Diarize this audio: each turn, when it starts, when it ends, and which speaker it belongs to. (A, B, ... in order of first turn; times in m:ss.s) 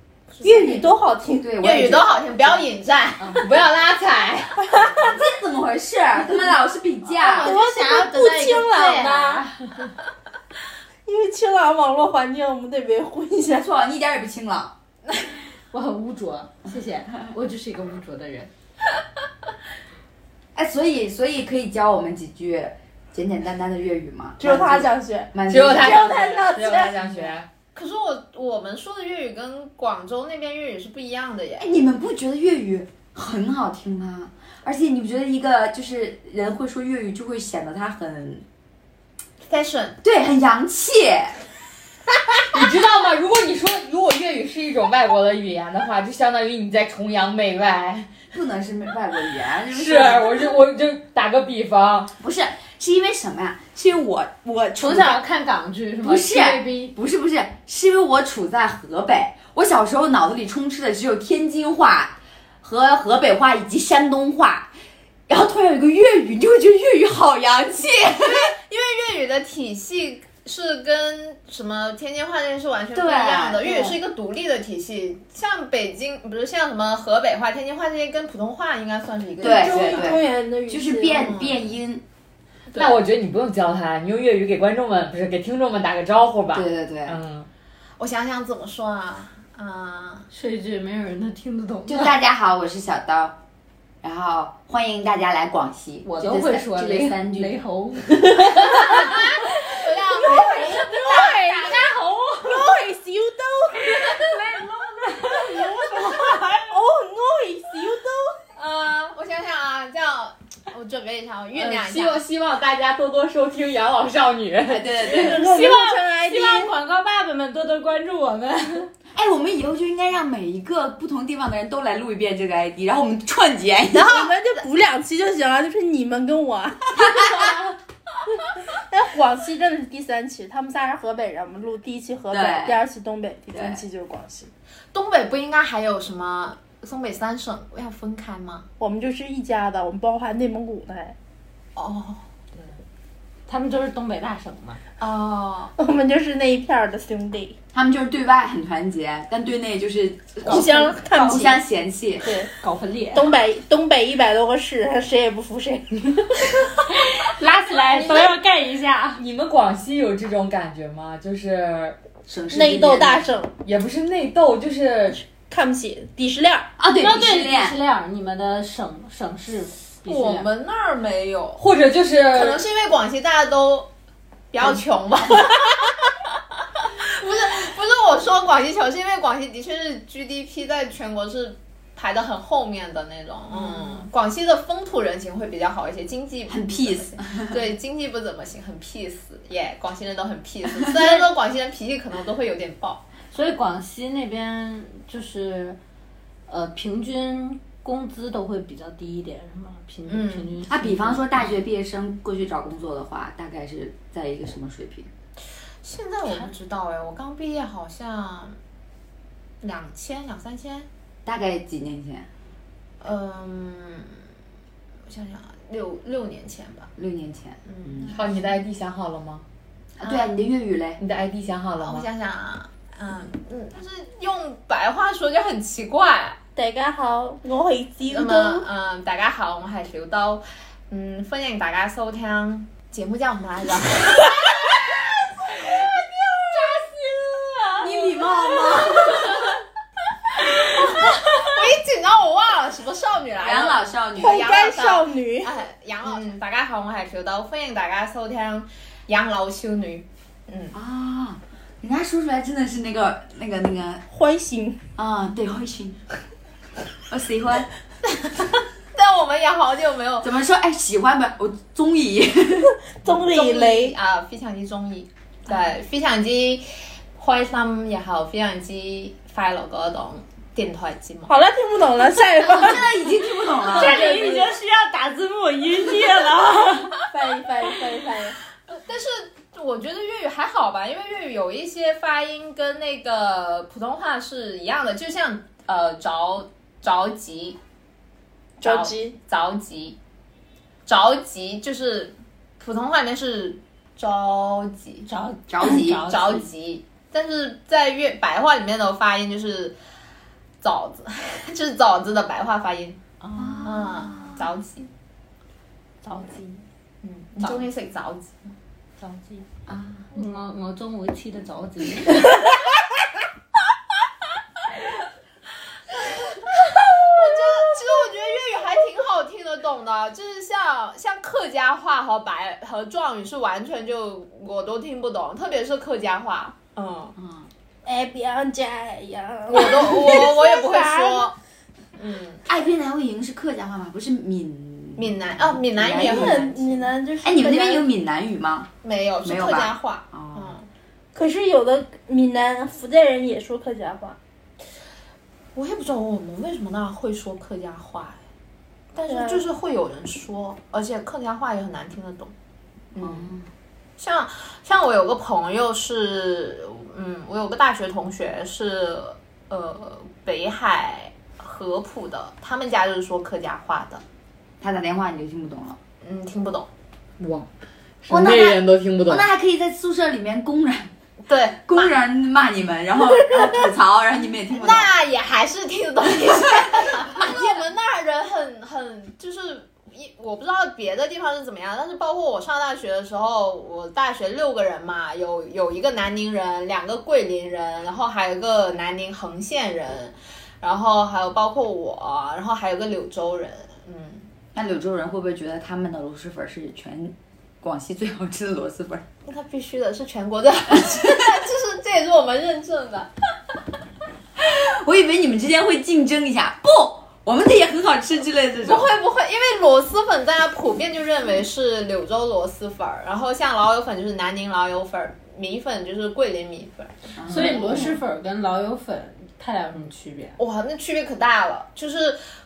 0:00.3-0:00.9 A
0:00.4-0:01.5 B
0:01.4-0:02.6 C
0:01.6-0:03.5 A
0:03.4-0:04.7 D
0:04.6-0:05.0 B
0:04.9-0:07.6 C
0:07.2-0:09.9 E
0:07.3-0:09.4 B
0:11.1-0:13.7 B
0:13.5-0:14.8 C
0:15.7-0:18.5 E
0:20.6-0:26.0 C
0:24.4-0:27.2 B
0:25.5-0:27.5 D
0:27.7-0:31.7 A
0:31.6-0:38.4 C
0:39.5-0:40.0 A
0:40.0-0:41.4 C
0:42.5-0:48.2 D
0:48.3-0:50.6 C
0:49.7-0:52.1 D
0:52.2-0:55.2 C
0:54.8-0:56.9 E
0:56.0-1:04.7 C
1:05.3-1:08.5 C
1:08.2-1:20.1 A
1:12.9-1:14.0 C
1:19.4-1:22.0 C
1:19.4-1:21.4 B
1:21.2-1:21.6 A
1:22.8-1:27.5 D
1:26.5-1:27.2 C
1:28.0-1:30.3 A
1:30.3-1:32.2 E
1:31.9-1:33.4 C
1:34.0-1:37.6 C
1:36.0-1:39.2 E
1:38.7-1:42.0 A
1:40.2-1:41.8 B
1:40.2-1:42.4 E
1:42.4-1:44.4 B
1:43.9-1:46.7 E
1:45.3-1:48.4 B
1:48.6-1:52.2 A
1:51.5-1:54.9 D
1:54.7-1:55.5 C
1:55.0-1:56.7 B
1:55.1-1:58.9 E
1:59.1-2:04.3 C
2:03.9-2:07.6 B
2:07.0-2:07.6 C
2:08.8-2:14.5 B
2:12.3-2:12.8 C
2:13.5-2:13.8 C
2:14.9-2:18.7 A
2:18.8-2:21.2 B
2:21.8-2:22.2 A
2:23.5-2:24.8 E
2:25.0-2:25.7 A
2:25.8-2:27.6 B
2:27.7-2:32.3 C
2:30.4-2:31.6 B
2:30.4-2:31.6 E
2:32.2-2:32.5 B
2:32.4-2:33.4 E
2:33.1-2:36.4 B
2:36.9-2:39.2 E
2:37.9-2:38.3 B
2:39.2-2:42.0 D
2:42.3-2:43.4 C
2:42.5-2:43.5 B
2:43.6-2:45.2 D
2:45.5-2:46.7 B
2:46.8-2:47.8 C
2:47.0-2:50.5 E
2:50.1-2:51.6 A
2:51.6-2:52.6 D
2:52.3-2:53.9 A
2:54.5-2:55.9 A
2:56.8-3:13.0 A
3:03.5-3:04.1 E
3:06.5-3:07.7 C
3:10.8-3:11.2 C
3:13.3-3:15.8 E
3:16.5-3:21.5 E
3:20.1-3:20.6 A
3:20.7-3:25.1 C
3:25.8-3:28.6 A
3:26.2-3:26.5 E
3:29.6-3:30.9 A
3:31.2-3:32.3 C
3:33.0-3:34.1 A
3:35.1-3:36.9 A
3:37.0-3:38.1 C
3:37.7-3:38.6 A
3:38.1-3:39.4 D
3:40.0-3:41.0 C
3:40.0-3:40.3 A
3:41.0-3:42.1 D
3:41.8-3:46.4 A
3:46.6-3:48.7 B
3:48.1-3:56.1 A
3:56.5-3:58.1 E
3:56.6-3:56.9 A
3:57.8-3:59.5 C
4:00.7-4:10.7 A
4:00.8-4:01.5 E
4:03.4-4:04.6 C
4:04.2-4:05.5 B
4:10.7-4:14.0 C
4:14.1-4:14.8 B
4:15.0-4:16.0 C
4:17.1-4:17.7 C
4:18.3-4:20.3 A
4:20.2-4:22.7 C
4:22.9-4:24.0 B
4:23.1-4:31.3 A
4:31.3-4:32.8 B
4:32.5-4:34.3 C
4:33.6-4:36.9 E
4:33.7-4:34.4 A
4:37.1-4:38.4 B
4:38.7-4:47.6 A
4:48.6-4:49.2 B
4:48.6-4:50.0 A
4:50.9-4:55.1 A
4:55.1-4:56.5 E
4:55.5-4:56.1 C
4:56.0-4:59.8 A
5:00.6-5:03.0 A
5:03.2-5:03.8 E
5:03.4-5:04.5 C
5:03.6-5:04.9 A
5:06.0-5:06.6 E
5:07.0-5:08.5 A
5:07.4-5:07.7 E
5:09.0-5:09.5 E
5:09.7-5:10.1 C
5:10.1-5:12.4 E
5:16.0-5:27.2 A
5:27.2-5:27.5 C
5:27.8-5:31.3 B
5:29.5-5:31.4 A
5:32.0-5:32.4 A
5:32.5-5:36.5 C
5:35.0-5:36.9 A
5:35.9-5:37.9 B
5:37.2-5:38.7 C
5:38.8-5:40.7 A
5:39.2-5:40.6 C
5:41.1-5:44.2 B
5:45.6-5:48.2 A
5:48.9-5:52.3 A
5:49.1-5:49.5 B
5:52.9-5:53.3 A
5:53.0-5:53.5 C
5:54.0-6:04.0 A
6:04.6-6:05.8 C
6:06.0-6:06.7 A
6:07.2-6:07.5 D
6:08.0-6:09.3 D
6:08.1-6:10.9 C
6:11.3-6:11.9 A
6:11.6-6:14.9 C
6:14.5-6:34.3 A
6:17.0-6:17.6 C
6:34.5-6:39.0 C
6:39.3-6:43.1 A
6:40.8-6:41.2 C
6:44.4-6:48.9 C
6:48.6-6:58.0 A
6:57.2-6:58.0 C
6:57.3-7:00.4 E
7:00.4-7:02.2 A